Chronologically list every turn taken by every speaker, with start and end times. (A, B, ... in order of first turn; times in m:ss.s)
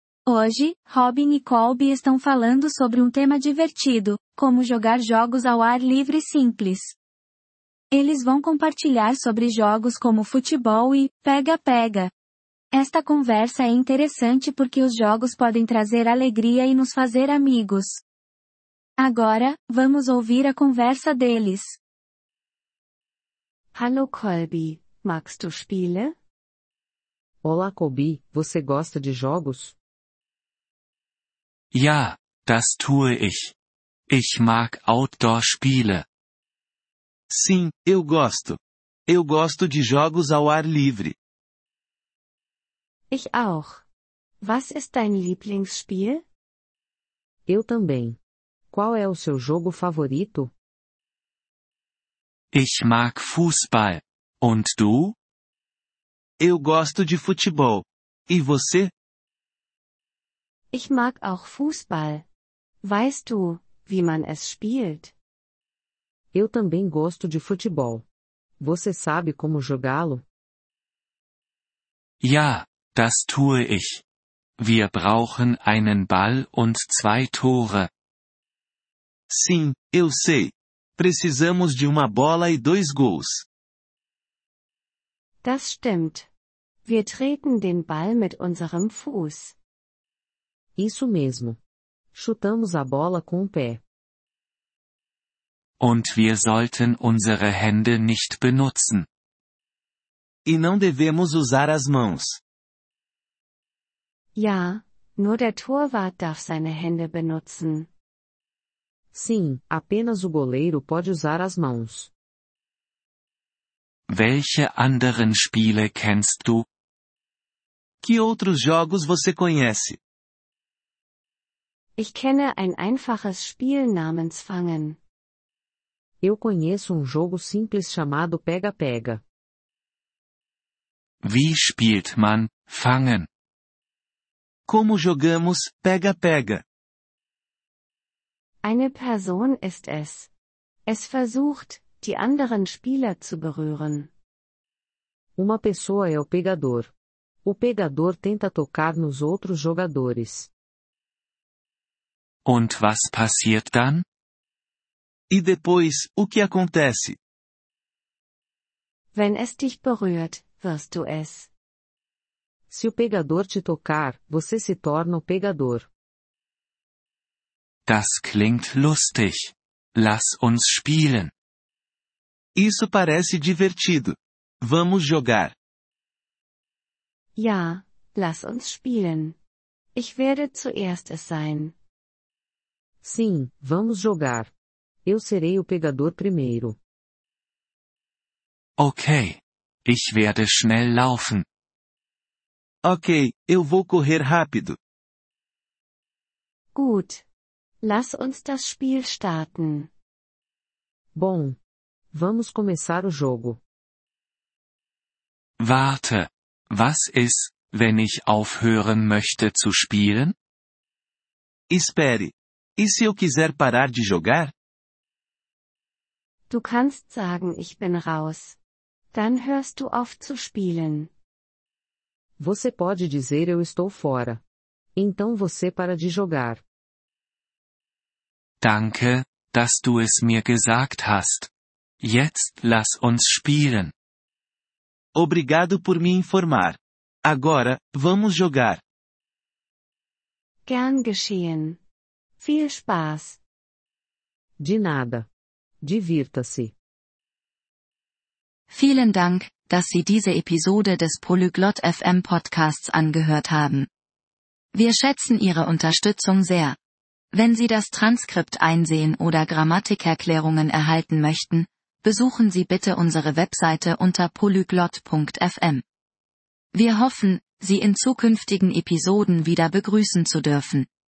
0:00.2-0:06.9 A
0:07.9-0:12.1 A
0:12.7-0:18.0 A
0:19.0-0:21.8 A
0:23.7-0:26.1 B
0:27.4-0:29.8 C
0:31.7-0:33.5 D
0:34.1-0:36.0 D
0:37.3-0:38.6 E
0:39.1-0:41.1 E
0:43.1-0:43.8 B
0:44.4-0:46.2 B
0:47.5-0:48.2 C
0:48.7-0:50.5 C
0:52.5-0:55.2 D
0:56.4-0:58.9 E
1:00.7-1:02.2 B
1:02.8-1:05.1 B
1:06.3-1:08.0 C
1:08.6-1:10.2 C
1:12.2-1:14.0 D
1:14.6-1:17.9 D
1:19.3-1:23.4 E
1:25.4-1:26.3 B
1:26.8-1:29.6 B
1:30.8-1:31.6 C
1:32.1-1:33.8 C
1:35.8-1:39.1 D
1:40.4-1:42.4 E
1:44.4-1:47.9 B
1:49.1-1:52.1 C
1:54.1-1:56.6 D
1:58.0-2:00.0 E
2:02.0-2:05.0 B
2:06.2-2:09.2 C
2:11.2-2:13.3 D
2:14.7-2:16.6 E
2:18.6-2:20.3 B
2:20.9-2:24.1 B
2:25.4-2:26.9 C
2:27.4-2:30.5 C
2:32.4-2:34.0 D
2:35.3-2:37.2 E
2:39.1-2:41.5 B
2:42.7-2:45.9 C
2:47.8-2:51.3 D
2:52.6-2:55.5 E
2:57.4-2:59.4 B
2:59.9-3:01.8 B
3:03.0-3:04.5 C
3:05.0-3:06.8 C
3:08.8-3:11.4 D
3:12.8-3:14.8 E
3:16.7-3:17.2 B
3:17.8-3:19.9 B
3:21.1-3:21.6 C
3:22.1-3:23.6 C
3:25.6-3:30.3 D
3:31.7-3:34.5 E
3:36.5-3:38.6 B
3:39.1-3:41.1 B
3:42.4-3:44.4 C
3:45.0-3:46.6 C
3:48.6-3:51.5 D
3:52.0-3:53.9 D
3:55.2-3:58.8 E
4:00.6-4:01.8 B
4:02.4-4:03.4 B
4:04.6-4:05.3 C
4:05.8-4:06.7 C
4:08.7-4:13.9 F
4:14.7-4:16.8 F
4:17.3-4:25.8 F
4:26.7-4:30.9 F